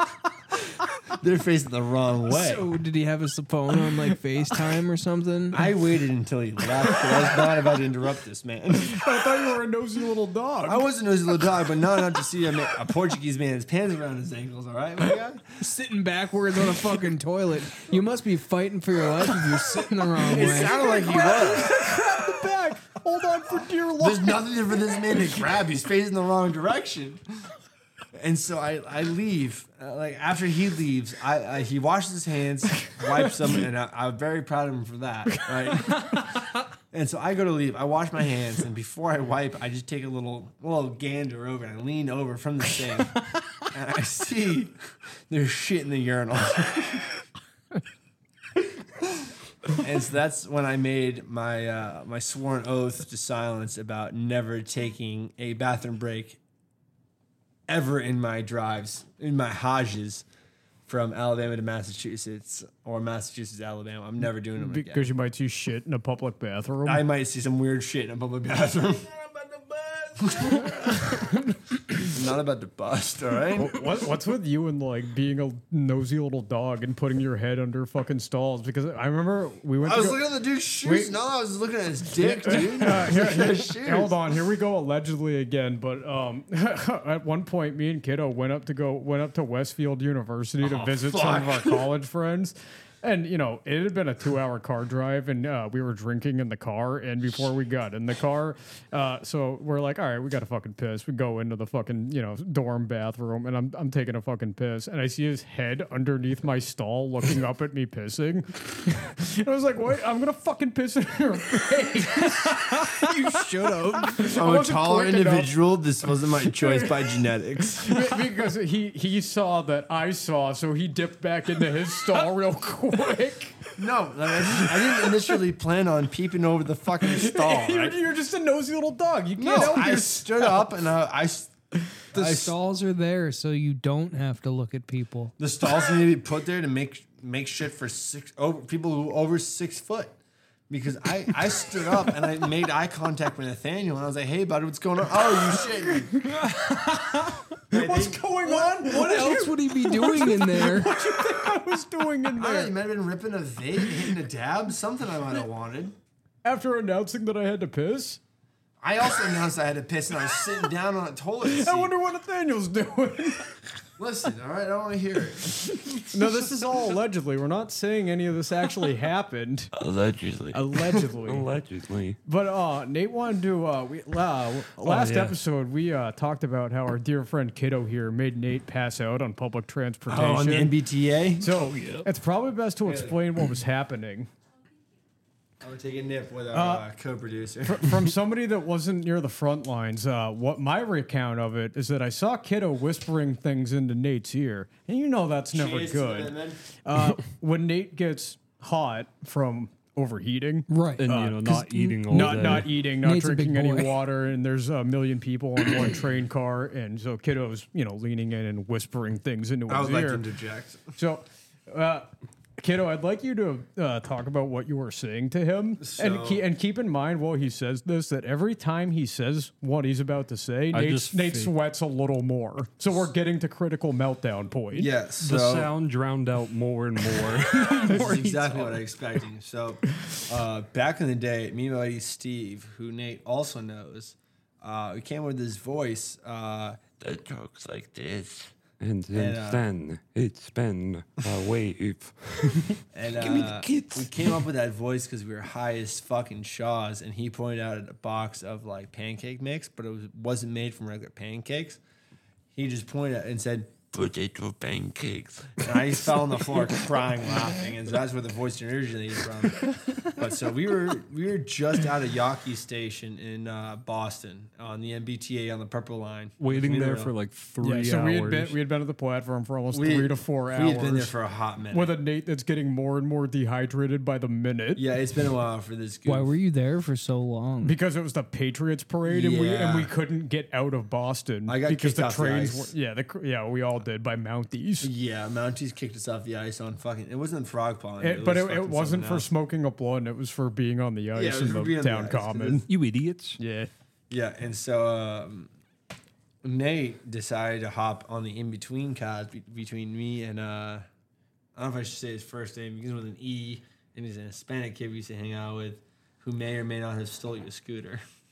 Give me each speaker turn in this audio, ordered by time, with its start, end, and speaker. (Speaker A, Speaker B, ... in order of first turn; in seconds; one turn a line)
Speaker A: 1.1-2.6
Speaker B: 2.3-5.7
Speaker A: 5.5-9.0
Speaker C: 8.8-10.8
Speaker A: 10.7-15.6
Speaker B: 15.6-20.9
Speaker A: 20.2-21.7
Speaker C: 20.4-24.4
Speaker A: 24.0-27.2
Speaker A: 28.1-44.7
Speaker C: 35.5-36.0
Speaker A: 45.3-47.2
Speaker A: 49.7-56.4
Speaker A: 57.7-60.2
Speaker A: 60.9-65.1
Speaker C: 64.6-67.0
Speaker A: 66.8-71.1
Speaker A: 71.9-74.0
Speaker C: 73.5-80.2
Speaker A: 79.8-84.1
Speaker C: 80.8-81.1
Speaker C: 82.2-113.1
Speaker A: 90.6-91.8
Speaker B: 112.8-114.2
Speaker C: 114.0-115.5
Speaker A: 114.2-118.2
Speaker C: 116.5-117.1
Speaker C: 117.8-123.7
Speaker A: 123.8-128.0
Speaker C: 124.8-125.2
Speaker C: 127.0-130.7
Speaker A: 129.4-131.5
Speaker A: 132.1-132.5
Speaker B: 132.1-135.3
Speaker A: 135.4-140.2
Speaker A: 140.7-146.3
Speaker C: 146.1-152.7
Speaker A: 147.7-148.2
Speaker B: 148.4-151.1
Speaker A: 152.3-155.9
Speaker C: 156.4-158.2
Speaker A: 158.8-161.9
Speaker C: 161.4-163.7
Speaker A: 164.0-166.1
Speaker C: 166.1-169.7
Speaker D: 169.7-170.7
Speaker C: 170.5-171.5
Speaker E: 171.2-172.2
Speaker C: 172.2-180.7
Speaker E: 174.8-175.3
Speaker A: 180.1-181.5
Speaker C: 181.4-184.3
Speaker E: 181.6-182.0
Speaker A: 182.8-183.2
Speaker A: 185.6-188.0
Speaker C: 186.5-186.8
Speaker C: 187.6-210.2
Speaker A: 195.5-196.6
Speaker B: 200.7-204.0
Speaker E: 201.0-202.7
Speaker A: 209.7-210.8
Speaker C: 210.9-224.9
Speaker A: 215.8-216.4
Speaker E: 220.7-221.5
Speaker A: 224.7-225.7
Speaker E: 225.2-228.8
Speaker C: 227.7-228.0
Speaker A: 227.8-236.8
Speaker D: 237.0-238.5
Speaker E: 238.8-242.8
Speaker A: 239.1-239.6
Speaker A: 242.9-251.8
Speaker B: 243.2-244.1
Speaker A: 252.5-253.9
Speaker D: 253.9-256.7
Speaker A: 255.6-267.1
Speaker E: 266.4-268.5
Speaker C: 267.6-271.1
Speaker A: 269.7-271.9
Speaker C: 271.7-274.8
Speaker A: 274.8-276.3
Speaker B: 276.0-277.8
Speaker C: 277.6-284.9
Speaker A: 279.0-279.9
Speaker A: 281.5-282.7
Speaker A: 284.8-289.3
Speaker C: 288.0-292.7
Speaker A: 291.1-292.6
Speaker E: 292.7-293.4
Speaker C: 293.4-293.7
Speaker A: 294.1-295.5
Speaker A: 296.4-300.9
Speaker A: 301.5-308.0